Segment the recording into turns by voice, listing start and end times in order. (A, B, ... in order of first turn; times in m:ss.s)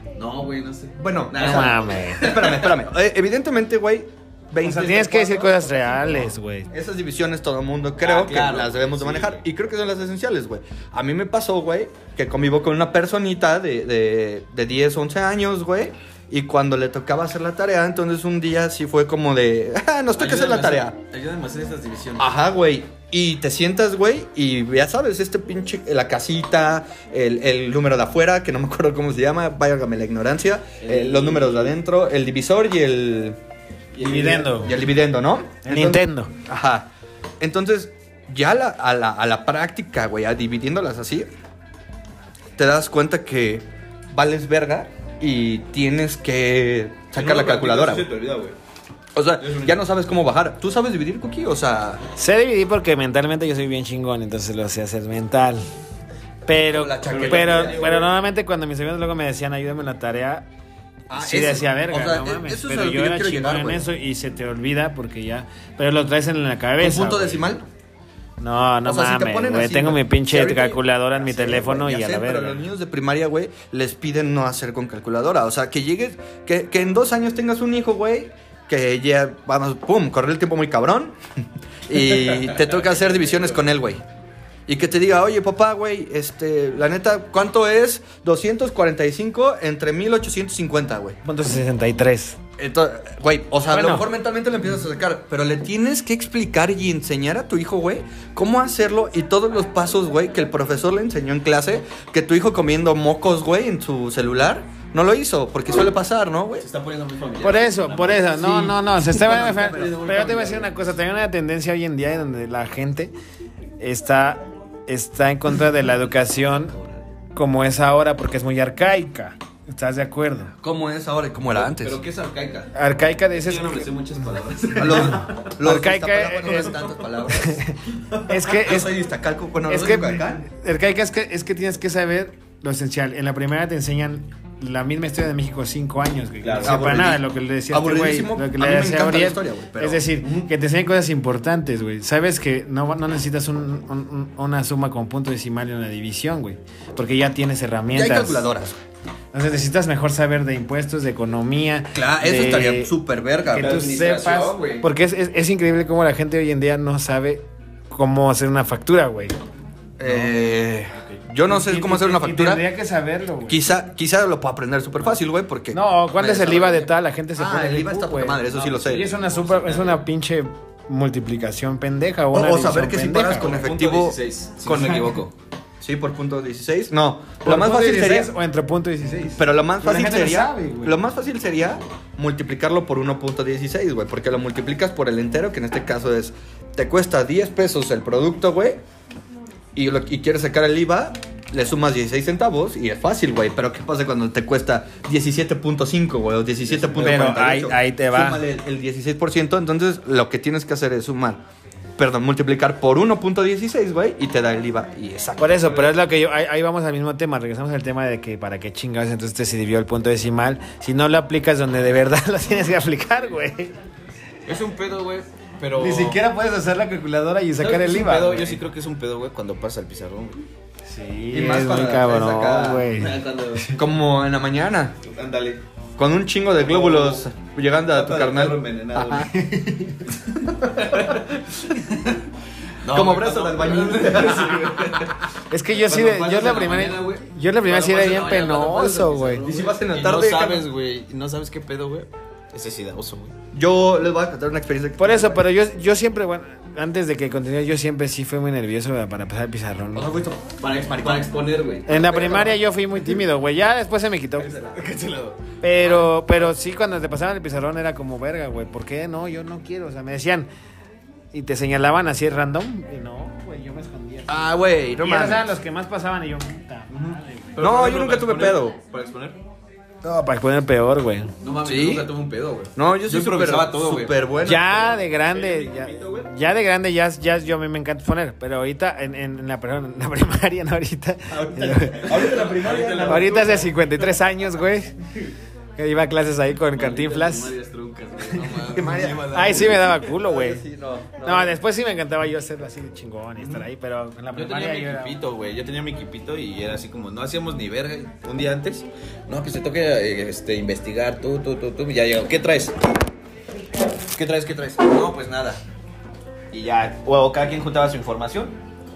0:00.2-0:02.8 A
0:01.0-0:21.0 B
0:01.4-0:02.3 C
0:04.6-0:06.7 C
0:08.0-0:09.4 A
0:20.2-0:22.3 A
0:22.2-0:33.4 B
0:30.8-0:31.7 A
0:33.9-0:34.7 A
0:34.0-0:34.7 C
0:34.4-0:36.9 B
0:35.6-0:36.3 C
0:37.4-0:41.3 B
0:42.6-0:48.1 B
0:47.1-0:48.6 A
0:49.1-0:52.0 B
0:49.4-0:49.8 A
0:52.2-0:55.6 C
0:56.5-1:00.5 C
0:56.7-0:58.0 B
0:57.0-0:58.1 A
1:01.1-1:03.8 B
1:01.1-1:07.5 C
1:06.8-1:07.6 B
1:08.4-1:12.7 C
1:08.8-1:21.2 B
1:21.9-1:24.0 B
1:24.7-1:31.2 B
1:31.2-1:32.4 C
1:32.6-1:46.6 B
1:33.7-1:34.1 C
1:46.6-1:50.9 A
1:47.4-1:53.1 C
1:53.8-1:56.8 C
1:56.5-1:57.0 A
1:57.3-2:00.5 C
2:00.6-2:02.0 B
2:01.5-2:02.7 A
2:02.7-2:03.9 C
2:03.3-2:05.3 A
2:04.8-2:07.6 B
2:05.6-2:06.8 C
2:06.6-2:07.0 A
2:07.4-2:07.7 C
2:08.1-2:08.8 A
2:08.3-2:08.9 C
2:08.5-2:10.4 B
2:09.7-2:28.4 C
2:16.4-2:16.8 A
2:16.6-2:20.0 B
2:20.2-2:20.5 A
2:27.9-2:28.8 B
2:29.3-2:32.9 C
2:31.9-2:33.8 B
2:33.5-2:39.4 C
2:33.6-2:34.9 A
2:40.0-2:42.6 B
2:40.0-2:40.3 C
2:40.9-2:41.2 A
2:41.4-2:43.6 C
2:43.5-2:49.1 B
2:45.7-2:53.5 C
2:48.5-2:50.0 A
2:52.3-2:58.3 B
2:53.3-2:55.3 A
2:57.4-3:01.0 C
2:59.3-3:08.8 B
3:09.7-3:21.4 B
3:16.7-3:17.1 A
3:17.0-3:18.4 C
3:22.0-3:25.9 B
3:25.4-3:33.7 C
3:25.7-3:25.9 A
3:34.4-3:36.2 A
3:35.8-3:38.6 C
3:37.6-3:40.4 A
3:40.9-3:43.7 C
3:41.3-3:42.9 B
3:42.9-3:43.7 A
3:43.7-3:45.0 B
3:45.0-3:45.6 A
3:46.0-3:49.3 B
3:46.6-3:47.3 A
3:47.9-3:49.3 A
3:49.3-3:50.1 C
3:50.5-3:51.0 B
3:50.8-3:52.2 A
3:52.8-4:03.4 A
3:52.9-3:55.1 B
3:55.5-3:59.4 C
3:59.4-4:00.7 B
4:03.5-4:05.4 B
4:05.0-4:10.1 C
4:09.9-4:11.3 B
4:10.6-4:12.6 A
4:11.9-4:14.5 C
4:14.4-4:16.1 A
4:15.6-4:20.5 C
4:21.3-4:24.5 C
4:24.3-4:25.4 B
4:25.0-4:27.6 C
4:26.9-4:29.4 A
4:27.6-4:28.8 B
4:30.0-4:31.3 C
4:31.4-4:36.3 A
4:31.6-4:32.1 B
4:32.8-4:34.8 B
4:34.4-4:42.1 C
4:41.3-4:43.6 B
4:41.9-4:43.7 A
4:43.0-4:44.9 C
4:45.8-4:47.5 C
4:46.7-4:50.0 A
4:48.4-4:48.8 C
4:48.7-4:51.6 B
4:49.3-4:50.6 C
4:51.2-4:55.2 C
4:54.3-5:02.8 A
5:04.1-5:05.6 A
5:06.5-5:08.6 A